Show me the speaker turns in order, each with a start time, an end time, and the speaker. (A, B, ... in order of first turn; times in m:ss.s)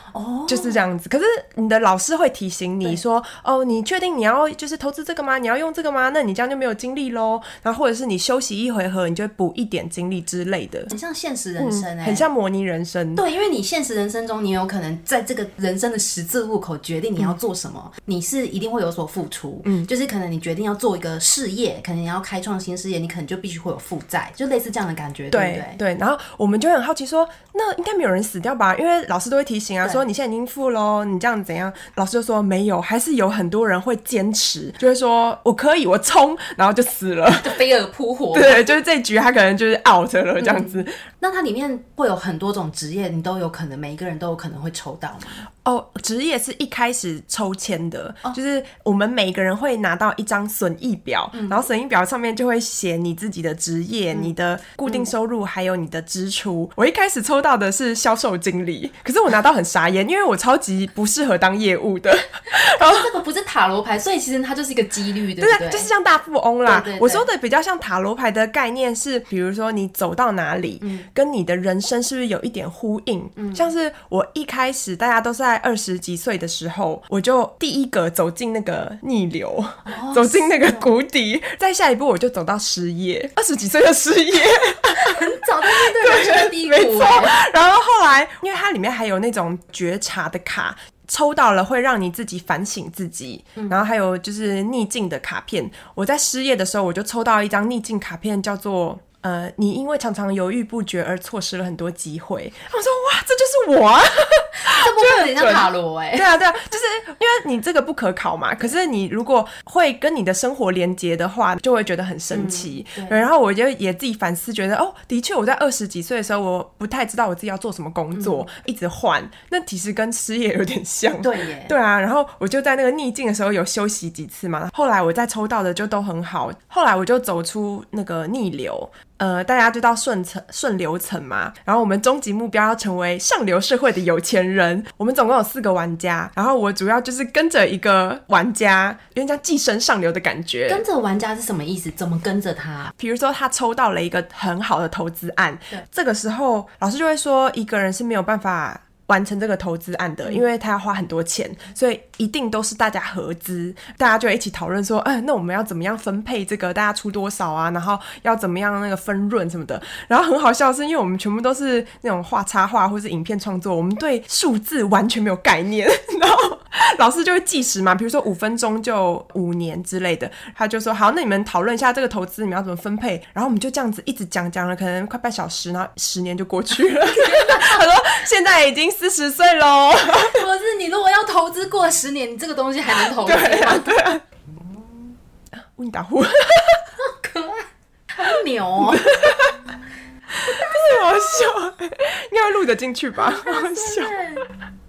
0:00.1-0:00.8 A
0:00.5-0:10.9 B
0:10.9-0:12.3 A
0:11.6-0:13.2 B
0:13.1-0:25.8 A
0:25.3-0:37.6 B
0:37.4-0:38.7 A
0:38.3-0:40.9 B
0:40.4-0:45.5 A
0:45.6-1:03.1 B
0:51.3-0:51.6 A
1:02.5-1:05.9 A
1:05.4-2:20.8 B
1:06.6-1:07.3 A
1:10.8-1:11.1 A
1:13.4-1:13.6 A
1:19.8-1:20.9 A
1:24.9-1:27.4 A
1:44.5-1:46.3 A
1:52.3-1:53.2 A
1:58.1-1:58.5 A
2:01.2-2:01.7 A
2:20.7-2:22.9 A
2:23.0-3:00.4 B
2:57.1-2:57.8 A
3:00.1-3:04.0 A
3:03.0-3:04.2 B
3:05.7-3:06.9 B
3:07.0-3:09.3 A
3:08.8-3:09.6 B
3:10.3-3:14.2 B
3:10.4-3:11.0 A
3:13.2-3:14.5 A